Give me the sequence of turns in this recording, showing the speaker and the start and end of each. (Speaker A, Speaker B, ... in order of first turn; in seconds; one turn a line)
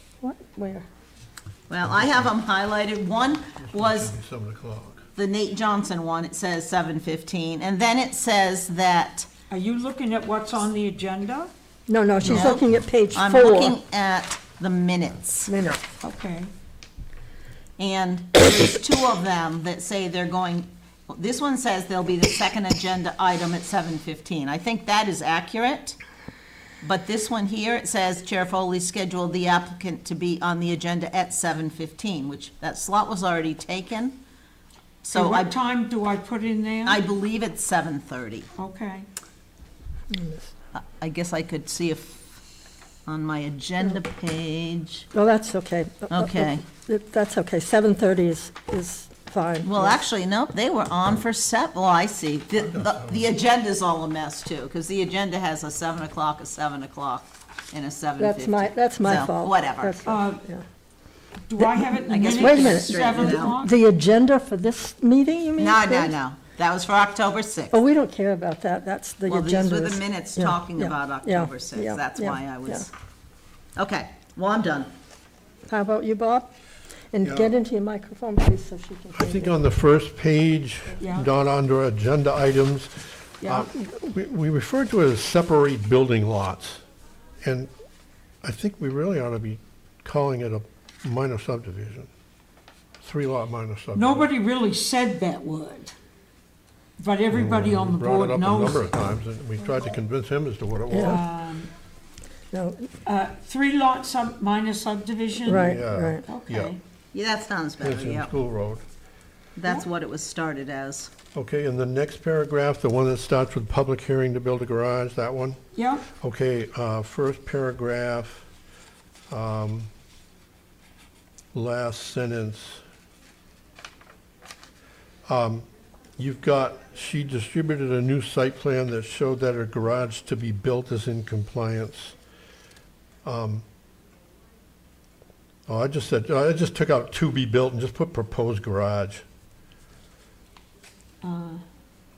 Speaker A: 0.2-0.8
Speaker B: 1.7-4.1
Speaker C: 3.6-5.1
Speaker B: 5.2-9.3
Speaker D: 9.5-11.5
Speaker A: 11.9-13.8
Speaker B: 12.2-15.5
Speaker A: 15.5-15.8
Speaker D: 16.0-16.5
Speaker B: 17.8-26.0
Speaker B: 26.8-34.2
Speaker B: 35.0-35.5
Speaker D: 35.1-37.0
Speaker B: 36.8-38.5
Speaker D: 38.6-39.0
Speaker A: 40.1-40.5
Speaker B: 40.7-42.4
Speaker B: 43.0-45.0
Speaker A: 45.1-50.0
Speaker B: 46.1-46.6
Speaker B: 49.6-60.0
Speaker C: 52.7-53.2
Speaker A: 58.2-60.6
Speaker D: 60.0-60.4
Speaker D: 61.5-63.7
Speaker A: 61.6-66.2
Speaker B: 62.1-63.5
Speaker B: 65.6-67.8
Speaker A: 67.7-72.9
Speaker B: 69.3-72.9
Speaker B: 73.8-74.9
Speaker A: 75.7-76.5
Speaker A: 77.1-79.6
Speaker C: 77.2-77.5
Speaker C: 79.1-86.8
Speaker D: 81.0-81.3
Speaker D: 83.4-83.7
Speaker C: 87.4-87.7
Speaker C: 88.4-92.1
Speaker C: 93.0-94.3
Speaker D: 93.9-95.9
Speaker D: 97.0-98.9
Speaker C: 97.3-101.2
Speaker A: 100.9-101.2
Speaker D: 101.0-101.7
Speaker A: 102.5-102.9
Speaker D: 103.0-106.8
Speaker A: 105.5-106.3
Speaker C: 105.5-106.7
Speaker B: 107.1-108.3
Speaker C: 107.8-108.8
Speaker B: 109.5-111.1
Speaker C: 111.3-115.6
Speaker D: 115.7-116.1
Speaker C: 116.1-118.5
Speaker C: 119.3-119.9
Speaker C: 121.5-122.8
Speaker C: 125.3-125.7
Speaker C: 126.2-132.1
Speaker C: 133.2-133.6
Speaker C: 135.7-139.2
Speaker D: 141.2-141.6